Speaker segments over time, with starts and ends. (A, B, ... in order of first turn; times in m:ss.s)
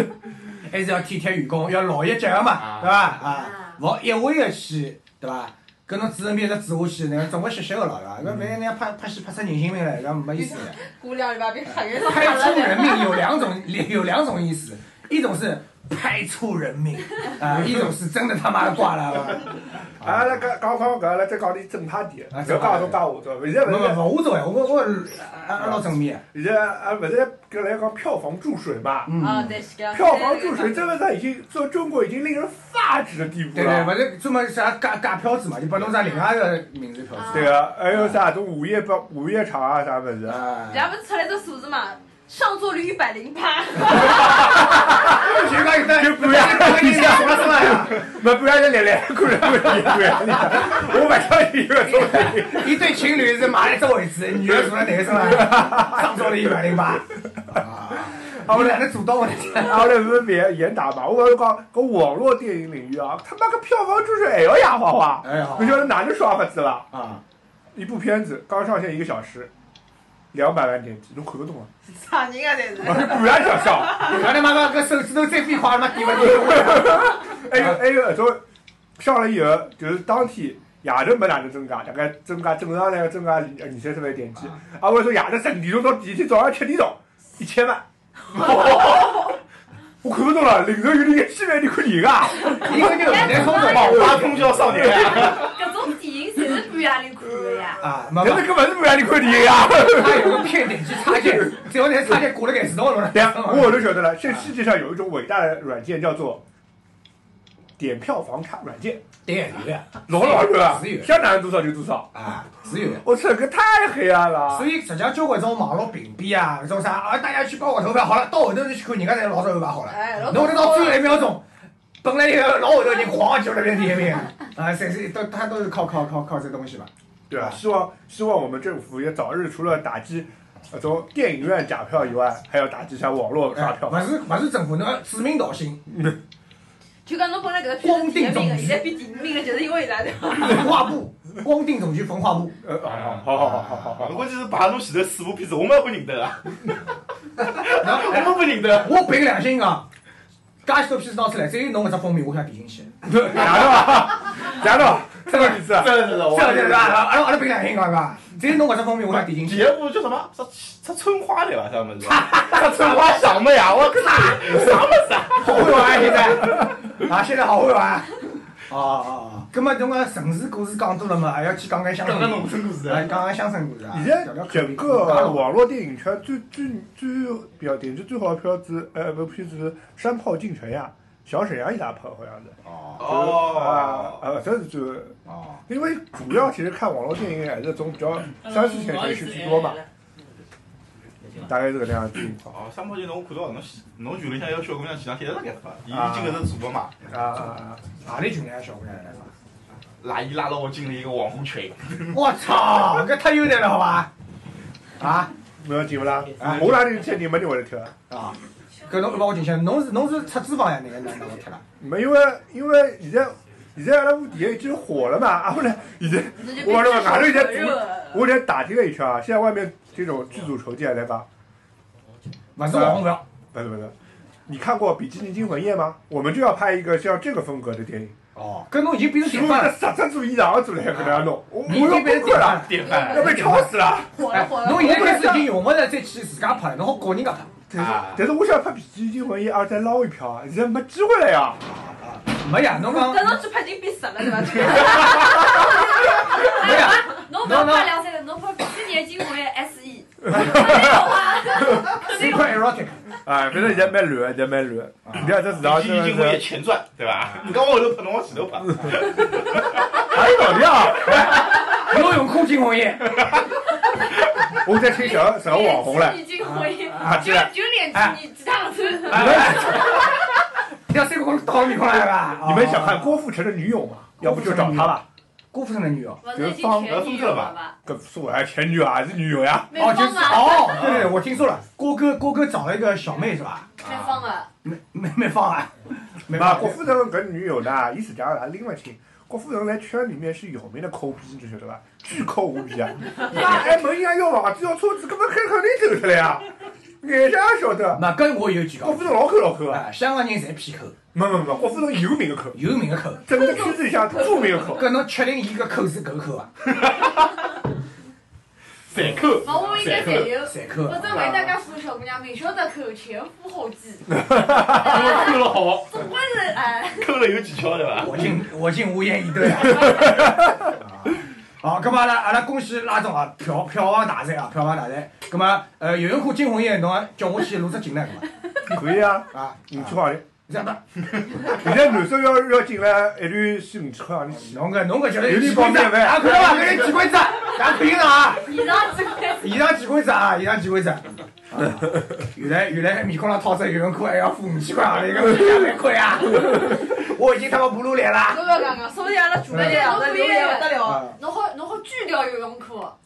0:00.6-0:10.8 A
0:03.3-0:03.8 B
0:10.3-0:13.2 C
0:11.7-0:20.3 A
0:20.0-0:24.1 D
0:22.3-0:23.0 A
0:23.6-0:26.2 A
0:25.6-0:29.2 D
0:29.0-0:29.6 A
0:29.2-0:31.0 C
0:29.9-0:34.0 D
0:33.5-0:38.2 A
0:37.1-0:37.6 B
0:37.3-0:40.5 D
0:40.3-0:40.9 A
0:40.7-0:44.4 C
0:44.9-0:48.0 A
0:45.1-0:53.1 D
0:51.8-1:00.1 A
0:54.4-0:57.0 D
0:58.1-0:58.9 D
0:59.5-1:06.9 D
1:05.2-1:05.9 A
1:06.9-1:07.2 A
1:07.8-1:09.5 D
1:10.3-1:11.7 D
1:11.9-1:13.3 C
1:12.8-1:14.2 D
1:13.8-1:17.7 A
1:16.1-1:18.4 D
1:19.0-1:27.8 D
1:28.4-1:29.2 E
1:30.0-1:35.3 D
1:32.6-1:34.1 A
1:32.8-1:34.1 B
1:33.5-1:35.6 E
1:34.9-1:37.8 B
1:37.8-1:38.5 A
1:38.1-1:41.6 D
1:39.6-1:44.5 A
1:43.1-1:46.4 D
1:47.8-1:49.0 D
1:49.3-1:51.2 A
1:50.1-1:52.1 D
1:52.1-1:53.0 A
1:52.9-1:54.7 D
1:54.5-2:01.5 A
1:59.9-2:01.3 C
2:02.0-2:07.6 A
2:07.3-2:14.1 D
2:13.5-2:15.8 A
2:15.9-2:16.2 D
2:17.1-2:20.8 C
2:17.8-2:18.9 A
2:20.3-2:22.6 A
2:22.6-2:24.3 D
2:22.8-2:26.7 E
2:27.4-2:29.2 E
2:27.7-2:29.9 A
2:30.6-2:34.5 A
2:33.1-2:36.1 D
2:35.3-2:39.8 A
2:35.6-2:37.0 E
2:39.2-2:46.1 E
2:42.0-2:43.3 A
2:43.9-2:44.7 A
2:45.4-2:55.5 A
2:46.1-2:46.6 D
2:52.0-2:53.2 E
2:53.9-3:09.8 D
3:02.6-3:03.1 A
3:03.0-3:04.2 E
3:05.3-3:05.6 A
3:08.5-3:09.8 C
3:11.3-3:12.5 D
3:12.4-3:17.0 E
3:15.9-3:16.5 D
3:17.0-3:18.0 D
3:18.0-3:19.3 A
3:20.0-3:22.2 E
3:22.1-3:24.1 A
3:25.0-3:25.3 A
3:25.6-3:28.0 D
3:26.4-3:26.9 A
3:28.1-3:31.6 A
3:31.8-3:41.3 D
3:36.4-3:38.3 C
3:42.6-3:43.2 A
3:42.7-3:44.0 D
3:44.5-3:48.2 D
3:48.4-3:49.8 A
3:49.2-3:54.1 D
3:50.9-3:57.5 A
3:52.8-3:53.6 C
3:54.1-3:55.5 C
3:57.7-4:01.6 D
3:57.8-3:58.2 E
4:01.6-4:03.4 A
4:02.8-4:05.6 C
4:06.0-4:12.5 B
4:06.4-4:08.0 A
4:10.4-4:10.8 D
4:10.4-4:10.8 A
4:11.8-4:13.0 A
4:13.2-4:16.4 D
4:15.2-4:19.6 E
4:20.1-4:21.8 D
4:21.0-4:23.4 A
4:23.1-4:23.4 D
4:24.2-4:26.3 D
4:24.9-4:29.6 B
4:26.4-4:27.3 A
4:27.0-4:27.5 D
4:29.1-4:30.3 A
4:29.1-4:30.0 D
4:30.9-4:33.2 A
4:32.4-4:35.1 D
4:34.2-4:36.2 A
4:36.2-4:37.8 B
4:36.3-4:37.0 D
4:36.8-4:37.6 E
4:37.8-4:39.8 D
4:39.7-4:41.0 B
4:39.7-4:43.7 A
4:40.7-4:41.1 D
4:43.8-4:44.5 B
4:43.8-4:44.2 E
4:44.6-4:46.8 A
4:46.3-4:56.5 D
4:57.0-4:58.1 D
4:57.9-5:01.0 A
4:58.8-4:59.8 D
5:01.1-5:02.6 D
5:02.5-5:03.7 A
5:03.3-5:05.0 D
5:03.9-5:04.6 C
5:04.6-5:06.5 A
5:08.9-5:10.5 E
5:09.3-5:17.1 B
5:10.3-5:11.5 A
5:11.1-5:11.5 E
5:14.7-5:16.0 E
5:16.9-5:18.3 E
5:18.0-5:28.3 A
5:28.7-5:30.2 D
5:29.3-5:31.6 A
5:31.4-5:36.9 D
5:34.3-5:38.5 A
5:38.4-5:39.6 B
5:39.4-5:48.6 A
5:48.3-5:51.0 C
5:49.5-5:53.0 B
5:49.5-5:50.0 A
5:50.8-5:51.2 A